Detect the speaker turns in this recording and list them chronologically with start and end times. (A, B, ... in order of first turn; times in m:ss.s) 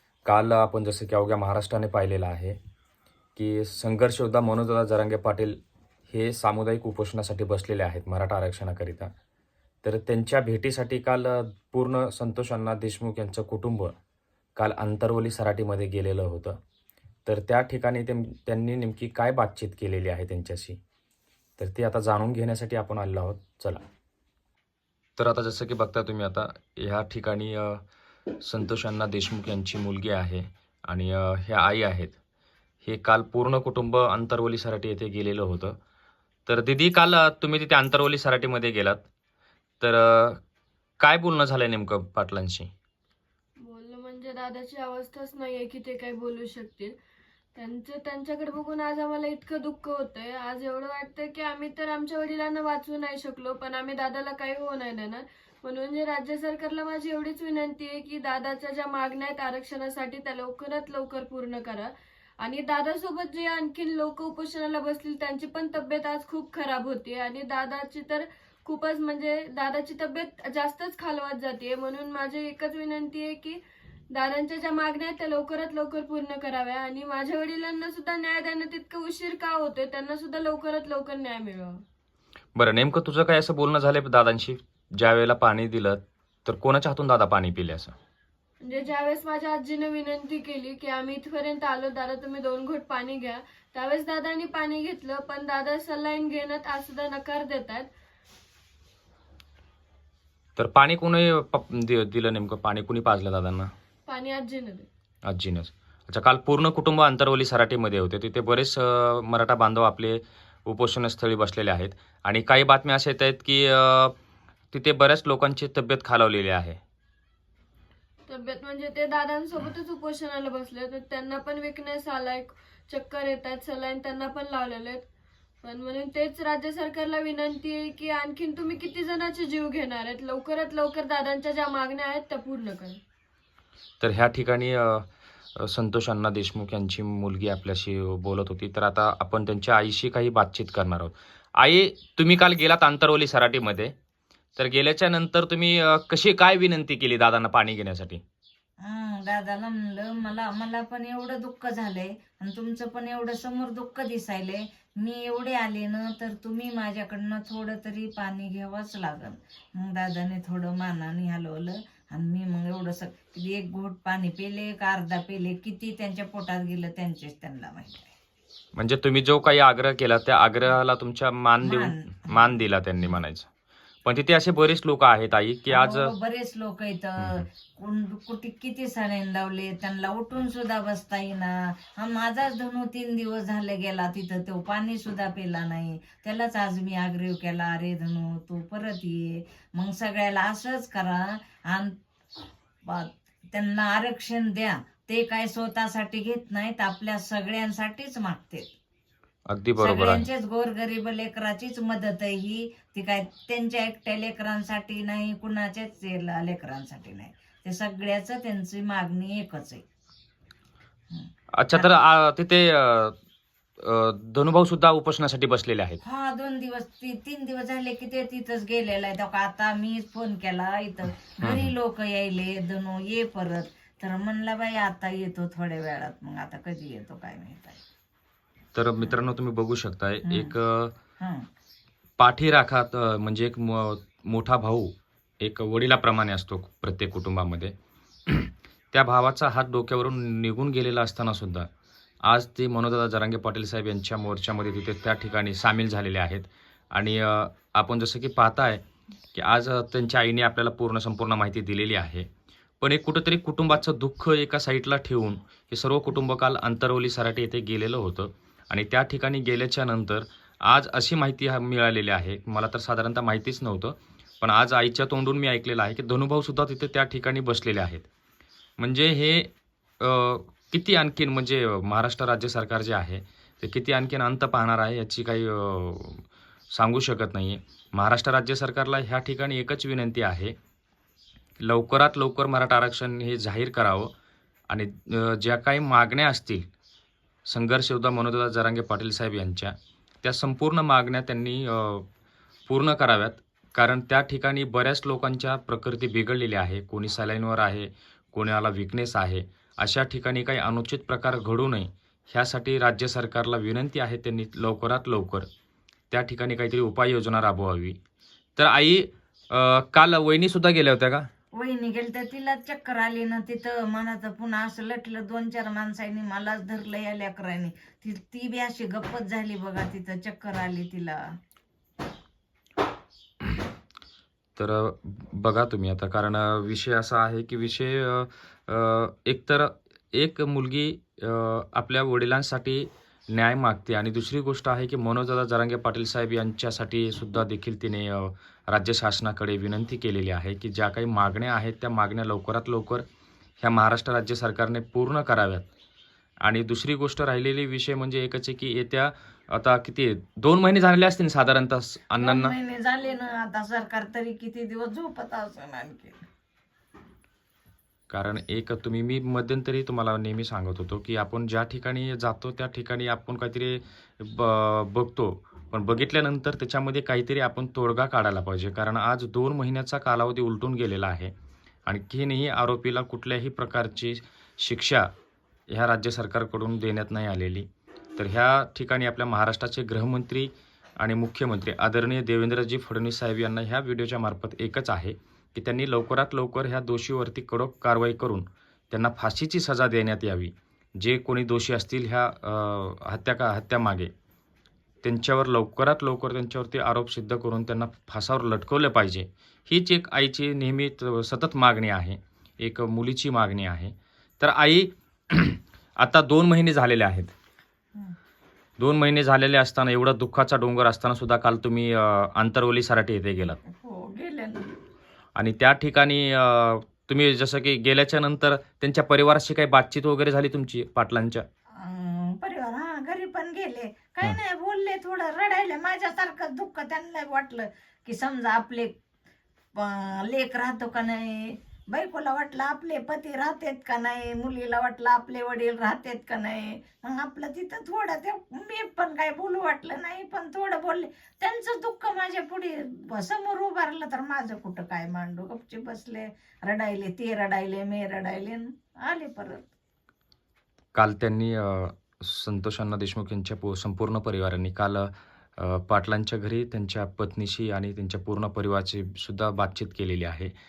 0:00.2-0:02.6 A
0:03.4-0:09.1 A
0:09.8-0:13.9 A
0:14.6-0:16.6 A
0:17.2-0:20.8 A
0:21.6-0:23.8 A
0:25.2-0:27.8 A
0:28.3-0:32.2 A
0:32.8-0:35.8 A
0:36.5-0:39.1 A
0:39.8-0:40.4 A
0:41.0-0:42.7 A
0:43.6-0:47.0 B
0:47.5-1:13.6 B
1:14.1-1:21.8 B
1:22.6-1:27.9 A
1:28.6-1:37.9 B
1:40.6-1:43.7 A
1:44.1-1:44.9 B
1:45.2-1:54.1 A
1:54.7-1:56.8 A
1:58.3-2:05.0 B
2:05.6-2:13.0 B
2:14.0-2:15.0 A
2:15.6-2:23.9 A
2:24.6-2:28.2 A
2:28.8-2:48.1 C
2:48.7-2:53.5 A
2:51.6-2:52.6 C
2:54.0-2:56.1 A
2:55.7-3:12.0 C
2:57.2-2:57.4 A
3:12.8-3:18.7 C
3:19.5-3:20.3 A
3:19.8-3:29.8 C
3:31.1-3:31.9 C
3:31.6-3:33.2 A
3:33.8-3:36.0 A
3:36.0-3:47.8 C
3:41.4-3:41.7 A
3:48.7-3:50.9 A
3:50.2-3:50.5 C
3:51.2-3:51.4 C
3:52.2-3:57.7 A
3:58.3-4:01.7 A
4:02.2-4:08.8 A
4:09.3-4:12.3 A
4:12.8-4:28.1 A
4:28.8-4:40.5 A
4:41.6-4:44.1 A
4:44.7-4:46.7 A
4:47.4-4:52.1 A
4:52.7-5:05.5 A
5:06.1-5:08.0 A
5:08.6-5:11.3 A
5:11.6-5:21.2 C
5:24.6-5:43.0 A
5:43.6-5:45.7 A
5:46.4-5:52.5 A
5:52.2-5:56.2 C
5:58.1-6:11.3 A
6:11.8-6:15.1 A
6:15.7-6:34.1 A
6:35.0-6:47.3 A
6:48.8-6:53.6 A
6:53.6-6:54.7 C
6:55.4-7:01.4 A
7:01.8-7:09.0 C
7:09.8-7:29.7 C
7:30.9-7:40.5 A